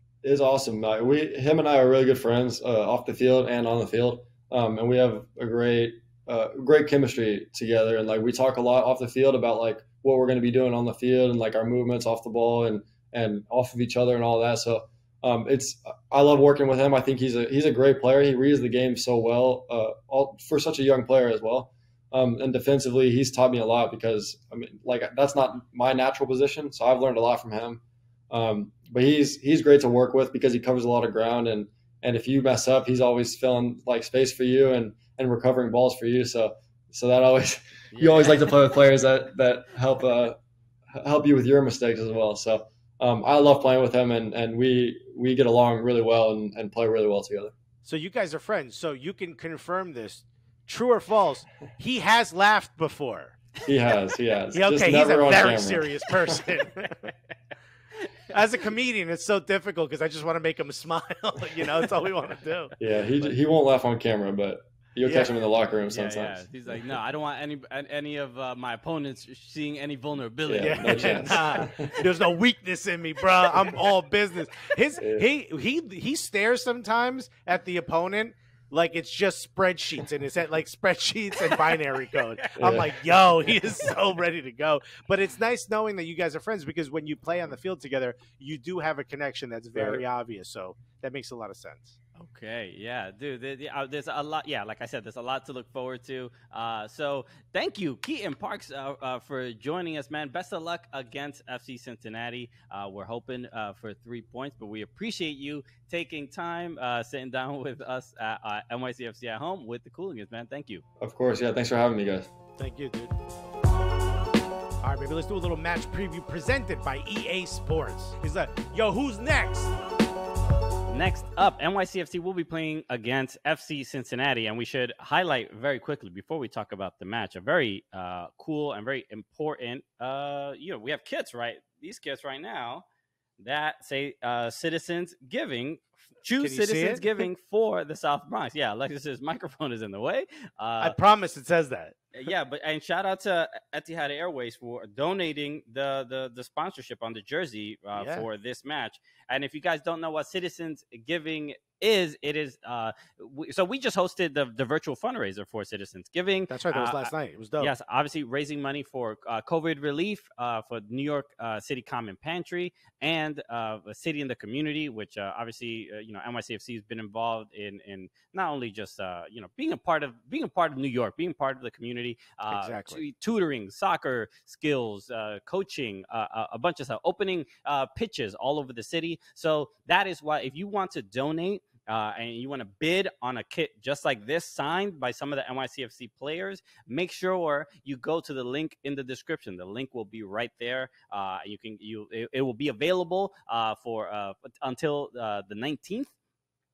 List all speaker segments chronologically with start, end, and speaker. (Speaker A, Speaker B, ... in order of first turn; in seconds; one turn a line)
Speaker A: 0.2-40.4
Speaker B: 37.9-38.6
Speaker A: 40.9-47.5
Speaker C: 47.8-53.4
Speaker A: 53.6-56.2
Speaker C: 54.5-57.1
Speaker C: 58.3-62.7
Speaker A: 62.8-66.4
Speaker C: 65.0-65.3
Speaker B: 65.9-71.5
Speaker A: 70.5-72.1
Speaker C: 70.6-92.0
Speaker A: 75.0-75.3
Speaker B: 81.4-82.8
Speaker A: 82.6-83.0
Speaker A: 89.7-90.0
Speaker B: 92.2-110.8
Speaker A: 111.0-112.3
Speaker C: 112.6-113.1
Speaker C: 114.8-119.7
Speaker B: 120.9-132.8
Speaker B: 133.4-141.0
Speaker C: 136.4-137.2
Speaker C: 140.8-142.1
Speaker B: 142.1-196.1
Speaker C: 147.9-148.2
Speaker C: 156.5-157.7
Speaker C: 172.5-173.0